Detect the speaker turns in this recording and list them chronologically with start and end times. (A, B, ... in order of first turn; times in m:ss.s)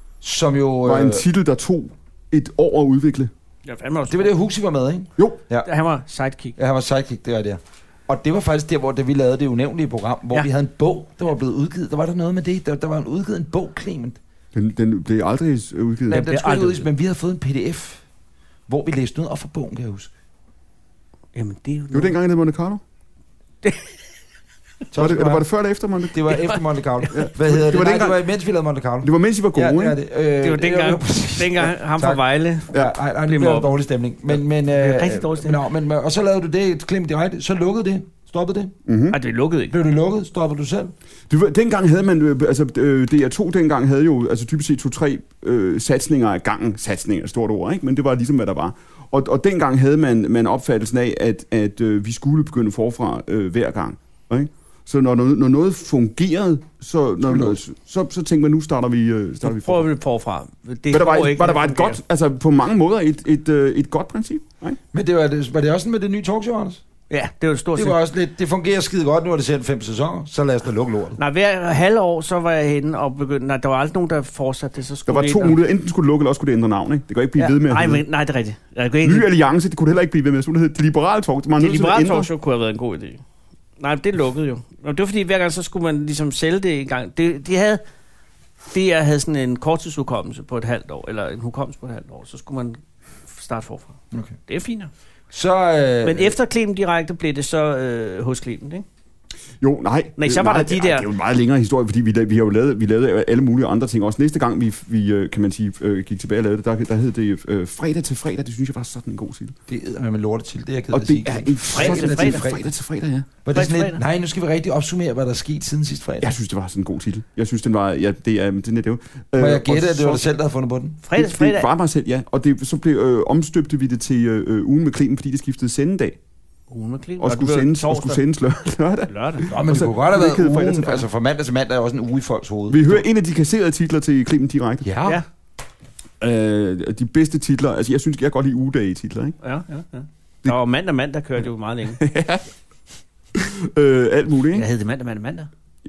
0:00.2-0:01.2 A
0:00.8-0:03.3 B
0:03.7-0:04.3 C
0:04.1-0:05.7 A
0:05.6-0:06.6 C
0:06.6-0:14.2 A
0:14.5-0:16.3 B
0:16.1-0:18.0 A
0:16.1-0:16.9 C
0:18.7-0:20.1 A
0:21.3-0:22.2 C
0:21.9-0:22.8 B
0:23.6-0:24.0 C
0:24.9-0:25.5 A
0:25.0-0:26.2 B
0:26.1-0:38.7 A
0:26.3-0:27.1 C
0:27.1-0:28.2 B
0:29.0-0:30.0 B
0:30.4-0:32.7 C
0:33.3-0:33.7 C
0:34.7-0:35.6 C
0:38.9-0:39.2 B
0:39.1-0:39.8 C
0:39.7-0:40.9 A
0:41.3-0:59.9 B
0:57.2-0:57.6 A
0:59.4-1:02.0 C
1:00.9-1:04.8 B
1:04.9-1:06.8 A
1:07.1-1:08.0 C
1:07.8-1:11.2 A
1:11.2-1:15.6 C
1:15.1-1:18.0 B
1:17.4-1:19.3 C
1:19.0-1:22.3 B
1:21.6-1:23.2 C
1:23.8-1:27.8 C
1:28.7-1:34.9 C
1:35.3-1:36.4 A
1:36.0-1:38.8 C
1:39.6-1:49.6 B
1:40.2-1:41.1 C
1:49.7-1:52.7 A
1:50.9-1:53.3 B
1:51.7-1:52.5 C
1:53.4-1:56.4 A
1:53.5-1:54.0 C
1:56.2-2:00.2 B
1:59.4-2:01.0 A
2:01.0-2:01.7 C
2:01.2-2:06.2 B
2:06.7-2:08.2 C
2:07.2-2:11.1 B
2:09.1-2:09.6 C
2:09.5-2:13.0 A
2:12.7-2:14.9 B
2:14.8-2:15.2 A
2:16.2-2:19.4 B
2:19.4-2:22.0 C
2:22.0-2:22.4 B
2:23.3-2:24.7 B
2:24.5-2:25.5 C